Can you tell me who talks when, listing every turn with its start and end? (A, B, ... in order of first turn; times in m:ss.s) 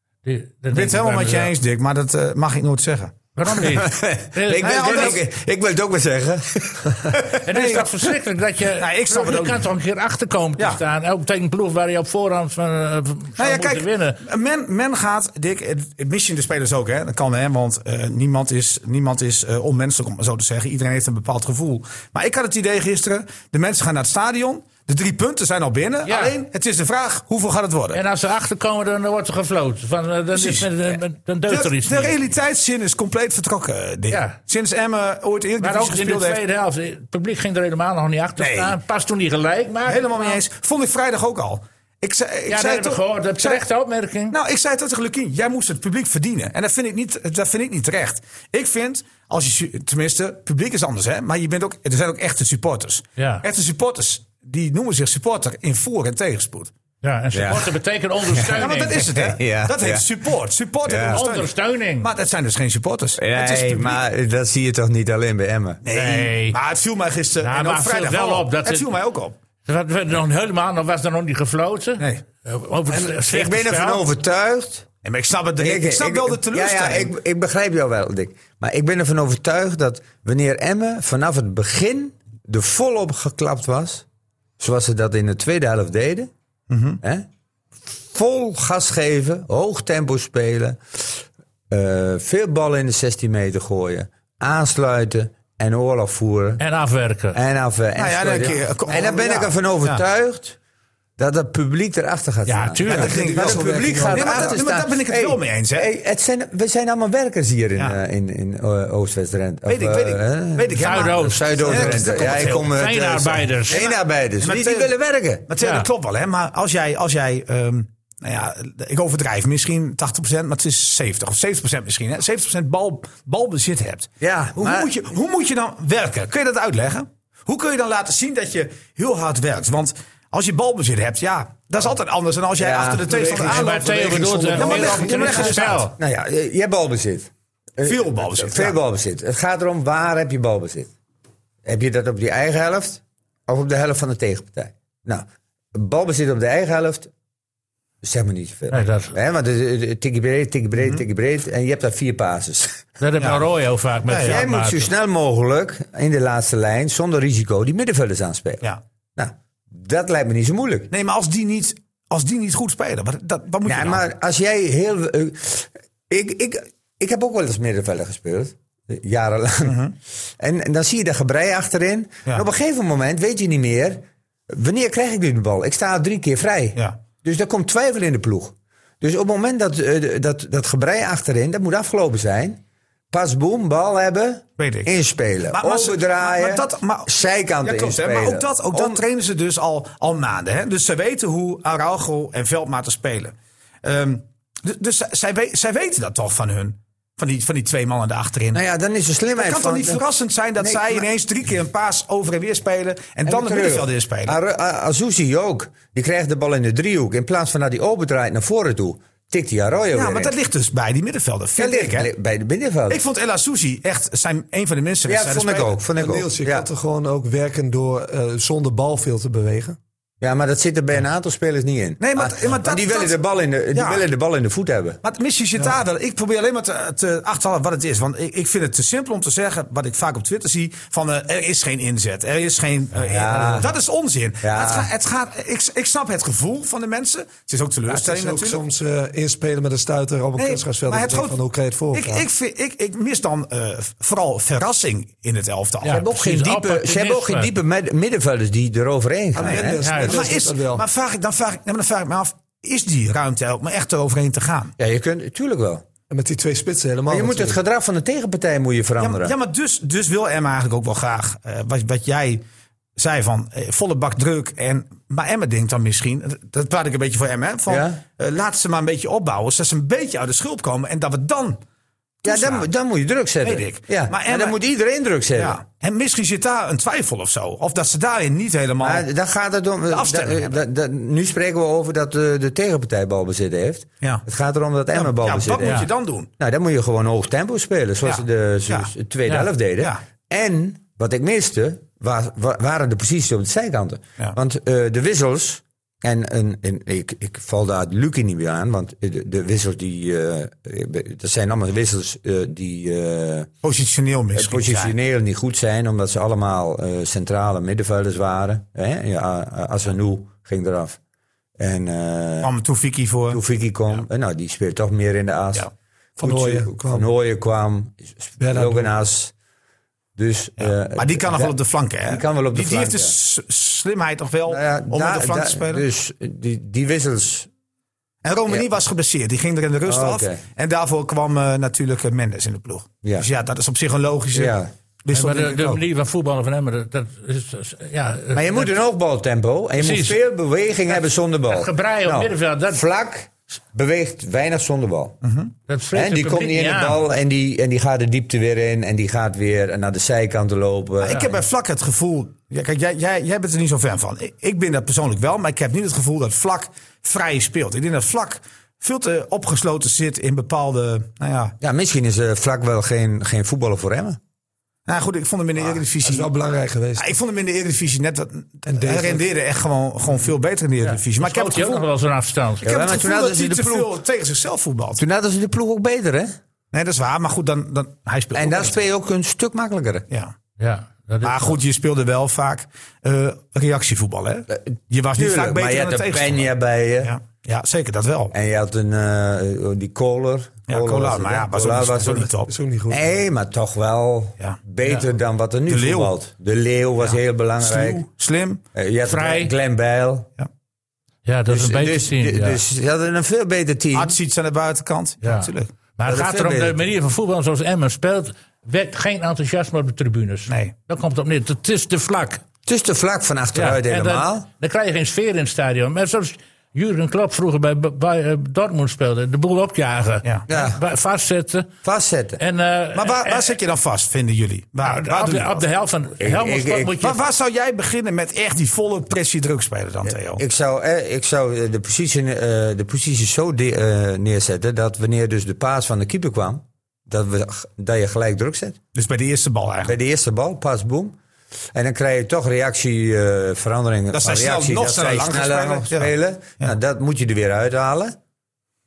0:00.2-0:01.5 A
0:00.7-0:03.2 B
0:03.4-0:05.2 A
0:03.5-0:07.4 C
0:04.6-0:05.2 B
0:07.3-0:07.9 B
0:07.4-0:14.2 A
0:08.8-0:09.6 B
0:13.4-0:28.0 B
0:26.0-0:26.4 A
0:27.9-0:32.2 A
0:30.3-0:30.7 B
0:31.5-0:36.4 B
0:34.1-0:34.4 A
0:35.6-0:40.4 A
0:38.4-0:38.8 B
0:39.9-0:43.6 B
0:42.5-0:44.4 A
0:44.3-0:56.7 B
0:53.2-0:53.4 A
0:57.0-0:59.1 A
0:57.3-0:57.8 C
0:58.3-1:00.1 C
0:58.5-1:04.0 B
1:00.8-1:01.2 C
1:01.0-1:02.1 A
1:03.2-1:05.8 C
1:05.8-1:09.4 B
1:05.9-1:06.6 A
1:07.4-1:08.8 A
1:09.6-1:14.0 A
1:12.9-1:14.9 C
1:15.0-1:17.1 B
1:15.6-1:24.0 C
1:24.6-1:26.3 C
1:26.7-1:27.0 B
1:27.0-1:27.3 C
1:28.1-1:36.6 C
1:36.6-1:37.4 A
1:37.3-1:40.6 C
1:38.0-1:40.0 B
1:41.2-1:55.5 C
1:42.5-1:43.1 A
1:42.8-1:45.9 B
1:42.9-1:44.6 D
1:49.7-1:52.8 B
1:50.8-1:53.8 A
1:53.7-1:54.9 B
1:55.5-2:15.9 B
1:55.6-1:55.9 A
2:04.2-2:04.9 C
2:12.6-2:13.3 C
2:13.1-2:15.6 D
2:13.4-2:15.9 A
2:14.5-2:20.9 C
2:17.8-2:18.8 B
2:21.6-2:27.1 C
2:28.0-2:32.8 C
2:28.7-2:29.1 A
2:33.0-2:34.9 A
2:34.1-2:34.4 B
2:34.2-2:40.9 C
2:40.9-2:44.0 B
2:43.6-2:49.8 C
2:49.6-2:49.9 B
2:50.4-3:09.0 C
3:04.6-3:04.9 B
3:05.5-3:18.6 B
3:18.5-3:20.0 C
3:19.4-3:24.4 B
3:20.6-3:21.1 C
3:23.2-3:30.3 C
3:29.9-3:32.1 B
3:31.6-3:33.0 C
3:32.9-3:35.7 B
3:35.0-3:36.7 C
3:36.0-3:39.8 D
3:40.2-3:45.0 C
3:42.0-3:43.2 B
3:43.7-3:44.0 B
3:45.0-3:58.6 B
3:53.0-3:53.7 C
3:54.4-3:54.9 C
3:57.9-4:02.2 D
4:00.4-4:01.4 B
4:01.9-4:06.0 B
4:05.8-4:07.5 A
4:05.9-4:09.8 C
4:09.3-4:10.8 D
4:09.4-4:14.7 B
4:09.8-4:10.3 A
4:14.8-4:15.8 C
4:16.1-4:17.6 D
4:17.1-4:19.3 C
4:19.0-4:22.4 B
4:23.0-4:31.6 B
4:27.7-4:28.0 C
4:32.2-4:32.7 B
4:32.2-4:35.6 C
4:33.4-4:34.6 B
4:35.4-4:39.0 B
4:38.8-5:03.5 C
4:39.9-4:40.6 B
4:44.9-4:46.3 B
4:48.0-4:48.9 B
5:03.6-5:04.9 B
5:04.3-5:11.0 C
5:11.6-5:12.5 C
5:12.4-5:13.4 B
5:13.3-5:15.7 C
5:16.2-5:17.1 D
5:16.2-5:19.3 C
5:18.4-5:18.9 D
5:20.2-5:21.5 C
5:20.6-5:25.8 B
5:22.0-5:23.1 C
5:24.5-5:27.5 C
5:28.2-5:35.8 B
5:29.8-5:30.4 C
5:34.3-5:34.7 C
5:35.1-5:38.7 A
5:38.3-5:45.2 C
5:39.8-5:40.2 A
5:41.5-5:42.8 A
5:45.2-5:45.5 B
5:45.7-5:47.0 A
5:45.9-5:51.4 C
5:51.0-6:01.5 B
6:01.6-6:04.2 C
6:04.9-6:06.3 B
6:05.6-6:07.1 D
6:07.0-6:11.8 B
6:08.7-6:09.2 D
6:10.8-6:12.6 A
6:12.6-6:13.9 C
6:12.6-6:15.0 B
6:15.0-6:16.4 C
6:16.7-6:18.8 B
6:18.3-6:20.0 C
6:20.6-6:21.6 A
6:21.2-6:26.5 B
6:24.5-6:27.1 C
6:27.0-6:28.3 B
6:28.3-6:32.3 C
6:30.7-6:32.5 B
6:32.4-6:33.0 D
6:32.9-6:38.0 C
6:35.7-6:36.1 B
6:37.0-6:38.6 B
6:38.7-6:40.3 C
6:39.0-6:39.5 A
6:41.2-6:42.6 A
6:41.5-6:44.2 C
6:43.9-6:45.7 B
6:45.2-6:52.4 A
6:46.0-6:46.8 C
6:52.6-6:54.5 C
6:53.5-7:01.7 A
7:00.5-7:00.8 C
7:01.8-7:02.4 C
7:02.4-7:03.5 A
7:02.9-7:05.6 B
7:04.8-7:07.2 A
7:06.2-7:07.0 C
7:07.0-7:10.4 B
7:10.3-7:18.8 C
7:18.9-7:20.0 B
7:19.8-7:21.2 C
7:21.7-7:28.2 C
7:24.1-7:26.7 B